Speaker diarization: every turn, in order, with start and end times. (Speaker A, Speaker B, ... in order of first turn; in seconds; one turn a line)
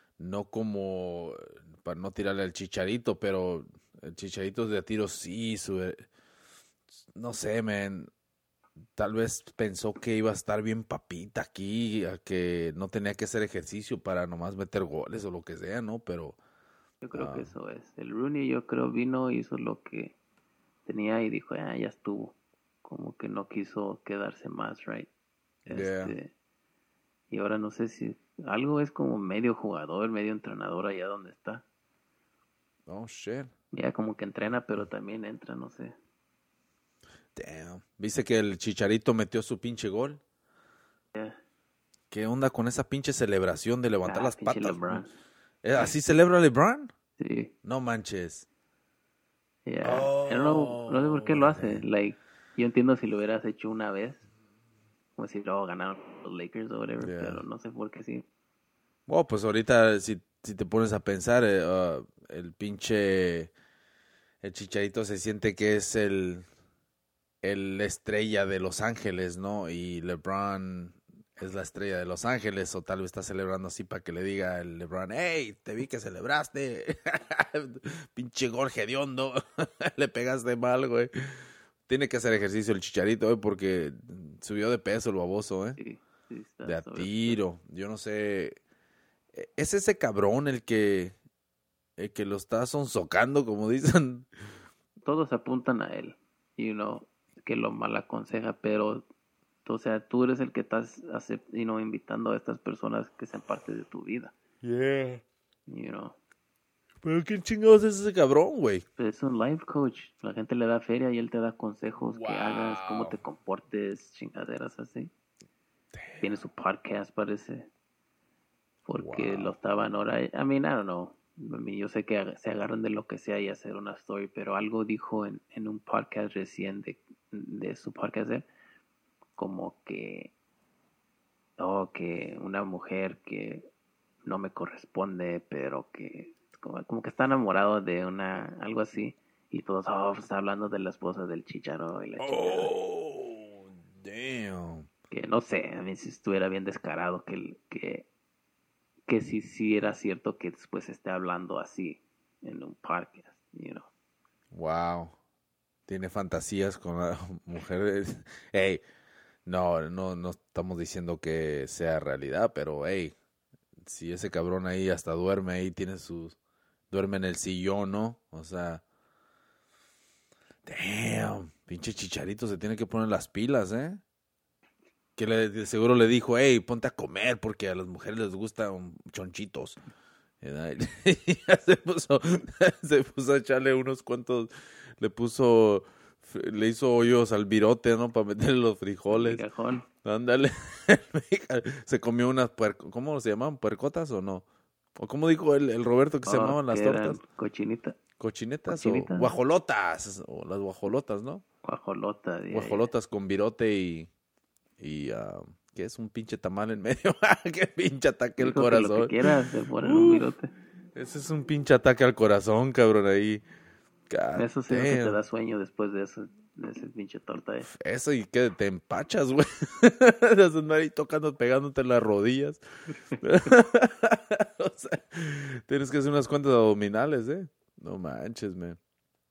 Speaker A: 0.2-6.1
Speaker A: 7.1-8.1
Speaker A: 9.0-16.4
Speaker B: 17.0-20.2
Speaker A: 17.1-17.5
Speaker B: 20.9-25.1
Speaker B: 25.7-26.3
Speaker A: 25.7-26.1
Speaker B: 27.3-31.6
Speaker A: 32.9-33.5
Speaker B: 33.7-36.0
Speaker A: 37.4-40.2
Speaker A: 42.1-45.0
Speaker B: 44.0-45.1
Speaker A: 45.6-46.9
Speaker B: 47.2-47.5
Speaker A: 47.6-48.5
Speaker B: 49.6-54.2
Speaker A: 49.8-51.9
Speaker B: 55.2-58.2
Speaker A: 57.0-57.4
Speaker A: 59.1-63.5
Speaker A: 64.4-66.5
Speaker A: 67.4-81.1
Speaker A: 81.9-85.8
Speaker B: 85.8-87.4
Speaker A: 86.6-88.5
Speaker A: 89.3-91.2
Speaker A: 92.0-94.3
Speaker B: 95.0-99.1
Speaker B: 99.7-104.3
Speaker A: 104.6-105.2
Speaker B: 105.7-106.2
Speaker A: 107.0-108.8
Speaker B: 109.0-115.1
Speaker A: 112.1-113.2
Speaker A: 115.9-116.3
Speaker B: 116.2-117.7
Speaker B: 118.9-128.5
Speaker A: 119.0-119.6
Speaker B: 129.4-130.3
Speaker B: 131.6-133.7
Speaker B: 134.2-142.7
Speaker A: 142.2-144.9
Speaker B: 145.1-148.1
Speaker B: 149.1-153.9
Speaker A: 154.5-155.2
Speaker A: 155.9-158.8
Speaker A: 159.5-163.2
Speaker A: 163.8-166.4
Speaker A: 166.9-168.8
Speaker A: 170.7-174.0
Speaker A: 175.2-179.8
Speaker A: 180.4-189.4
Speaker B: 189.1-189.9
Speaker A: 190.0-194.4
Speaker A: 195.0-197.2
Speaker B: 196.3-198.0
Speaker A: 198.2-201.4
Speaker B: 198.7-199.3
Speaker B: 201.6-202.9
Speaker A: 202.5-204.1
Speaker A: 204.8-209.2
Speaker B: 208.4-210.5
Speaker A: 209.8-210.3
Speaker A: 210.9-213.4
Speaker A: 214.1-215.2
Speaker B: 214.4-217.7
Speaker A: 217.7-222.6
Speaker A: 223.2-228.8